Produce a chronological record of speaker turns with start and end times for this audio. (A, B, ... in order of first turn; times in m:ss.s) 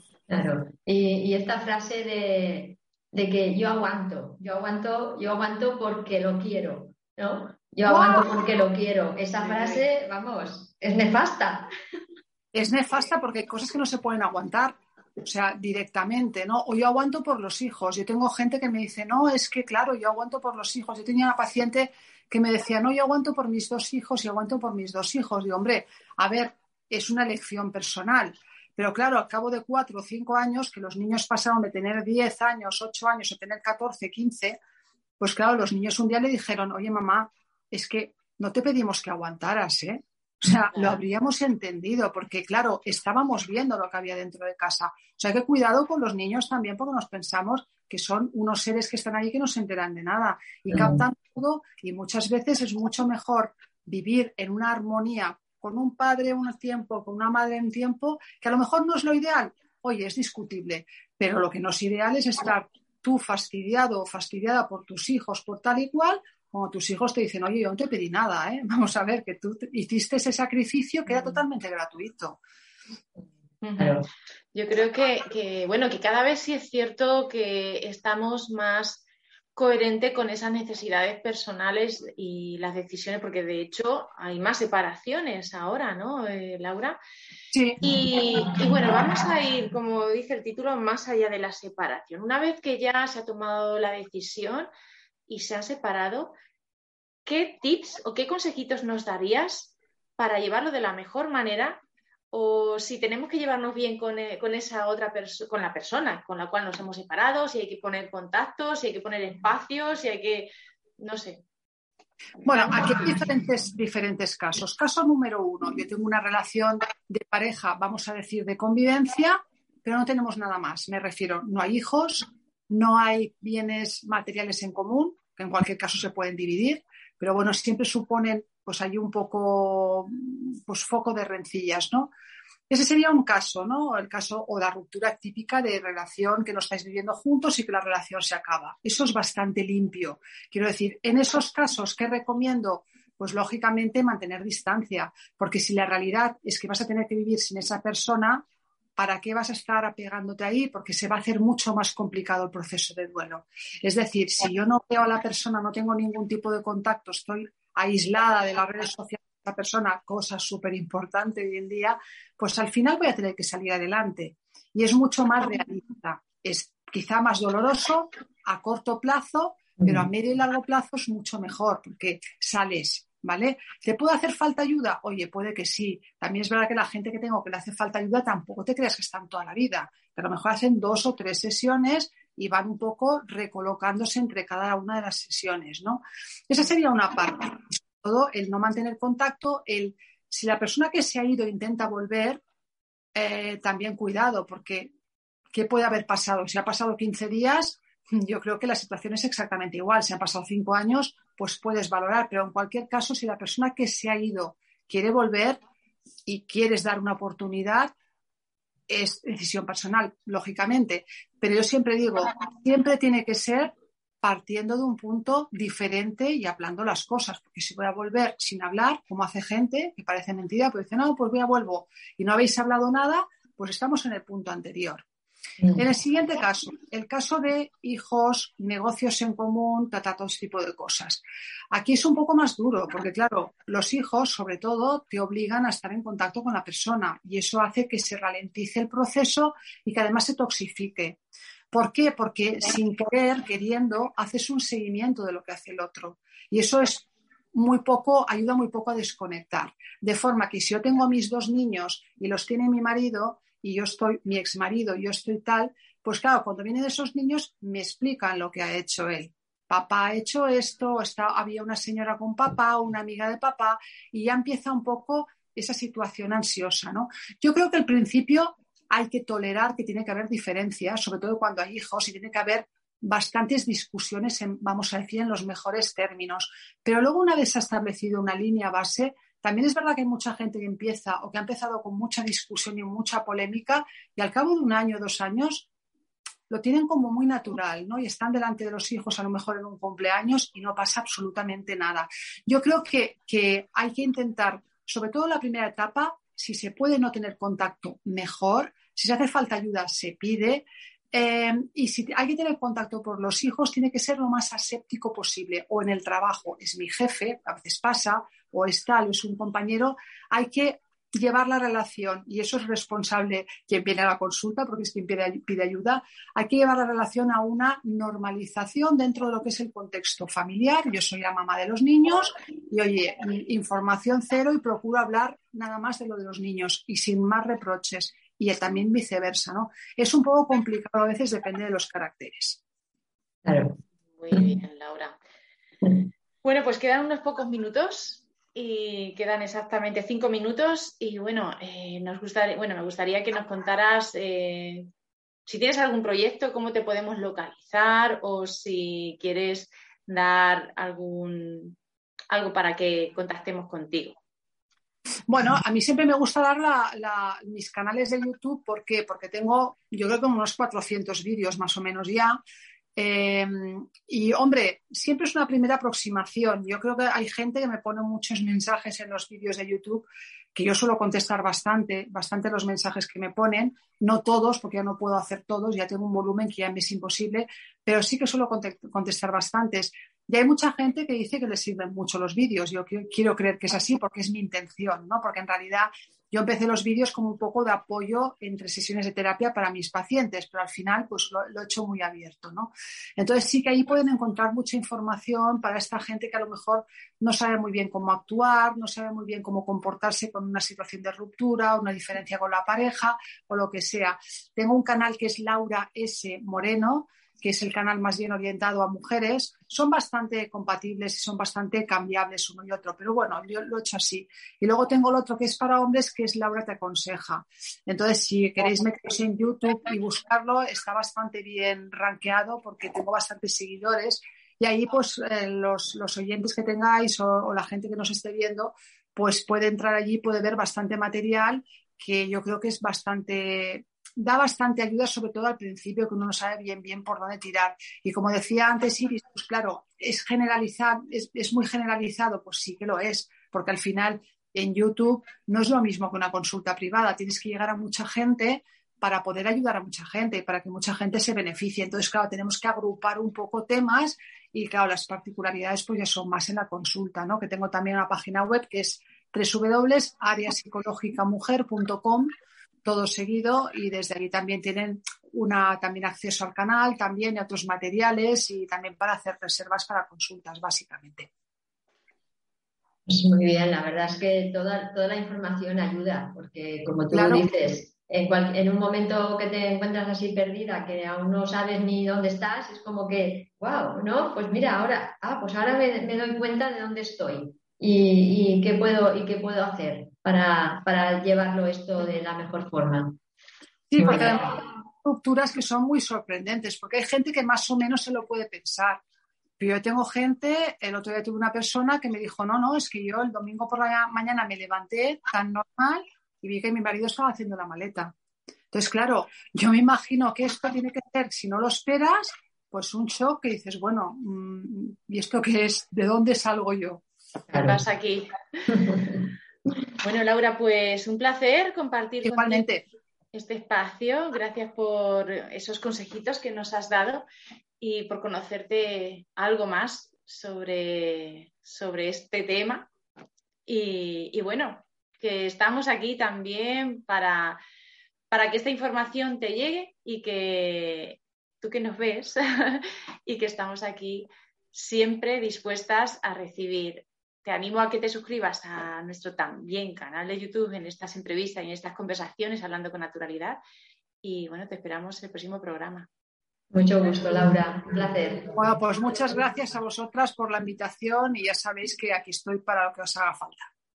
0:00.3-0:11.7 A
0:07.8-0:08.4 B
0:12.5-0:34.6 B
0:35.2-1:12.4 B
0:50.7-0:51.0 A
1:13.6-1:14.0 C
1:13.8-1:14.1 A
1:14.5-1:19.0 C
1:19.6-1:27.0 C
1:27.5-1:27.8 B
1:27.8-1:34.7 C
1:35.3-1:36.3 C
1:37.2-1:51.4 C
1:52.4-1:53.0 C
1:52.4-2:12.1 B
2:12.7-2:28.4 B
2:29.0-3:12.4 B
2:49.8-2:50.1 A
3:13.1-3:14.9 B
3:15.5-3:25.6 B
3:26.2-3:27.9 B
3:28.9-3:45.0 B
3:45.7-3:51.2 B
3:51.7-4:01.2 B
4:01.7-4:45.7 B
4:46.5-5:32.6 B
5:33.4-5:33.8 A
5:34.2-5:35.1 C
5:36.4-5:44.9 C
5:45.4-5:51.8 C
5:52.3-5:54.2 C
5:55.3-6:02.4 B
6:03.0-7:42.3 B
7:42.8-7:51.3 B
7:53.1-8:13.2 A
7:57.1-7:57.4 B
8:13.9-8:19.0 B
8:14.0-8:14.5 A
8:19.6-8:28.1 B
8:28.7-8:37.0 B
8:37.5-8:37.8 A
8:37.5-8:38.9 C
8:38.7-8:39.0 A
8:40.0-8:42.7 C
8:42.2-8:42.8 B
8:43.3-8:47.2 C
8:47.8-8:52.9 C
8:53.7-8:57.6 C
8:58.3-9:13.6 C
9:14.2-9:16.1 C
9:16.7-9:18.6 A
9:18.4-9:23.7 B